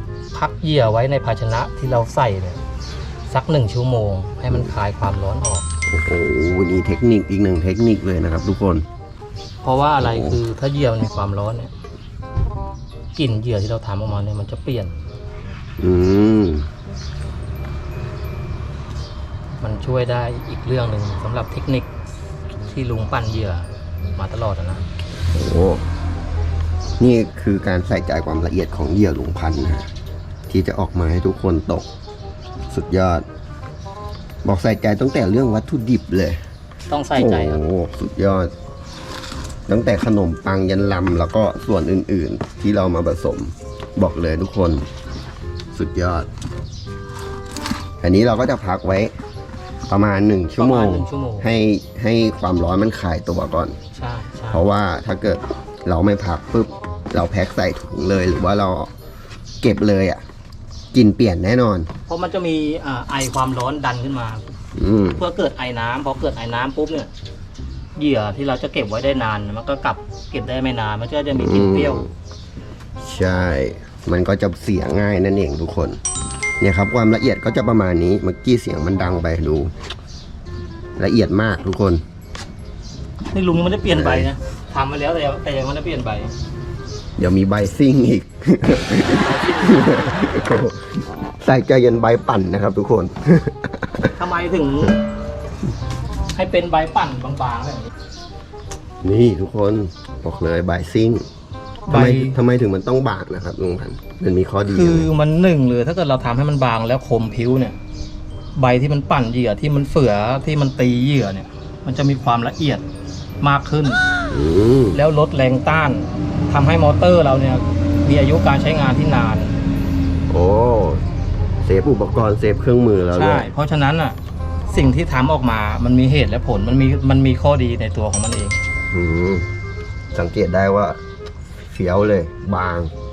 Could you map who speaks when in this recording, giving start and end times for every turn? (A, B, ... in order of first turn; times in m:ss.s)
0:00.3-0:02.6 A
0:03.3-0:05.6 A
0:05.9-0:08.8 B
0:09.6-0:11.7 A
0:10.0-0:10.4 B
0:13.1-0:15.0 A
0:15.8-0:16.7 B
0:19.6-0:21.9 A
0:22.7-0:24.8 A
0:25.3-0:25.8 B
0:27.0-0:29.9 B
0:30.5-0:31.9 B
0:32.7-0:33.2 B
0:34.4-0:36.4 B
0:36.9-0:37.6 A
0:37.2-0:38.5 B
0:39.7-0:44.9 B
0:45.7-0:46.3 B
0:48.0-0:49.1 B
0:49.9-0:53.8 B
0:50.6-0:51.5 A
0:53.9-0:54.6 A
0:54.5-0:58.9 B
0:59.6-1:00.2 B
1:00.9-1:01.9 B
1:02.1-1:04.5 A
1:04.8-1:05.2 B
1:05.1-1:07.1 A
1:07.9-1:12.0 A
1:11.3-1:12.1 B
1:13.0-1:16.0 B
1:16.6-1:19.7 B
1:21.0-1:22.0 B
1:23.3-1:26.3 A
1:23.8-1:24.3 B
1:27.2-1:34.1 B
1:29.1-1:30.6 A
1:34.1-1:35.0 A
1:36.3-1:37.9 A
1:39.0-1:41.2 B
1:41.8-1:42.4 A
1:41.9-1:45.1 B
1:44.7-1:47.8 A
1:48.5-1:52.8 A
1:53.4-1:54.0 A
1:54.3-1:55.0 B
1:54.9-1:59.6 A
2:00.3-2:01.0 B
2:01.6-2:03.5 B
2:03.1-2:08.6 A
2:08.9-2:09.5 B
2:10.1-2:11.0 B
2:11.6-2:12.9 B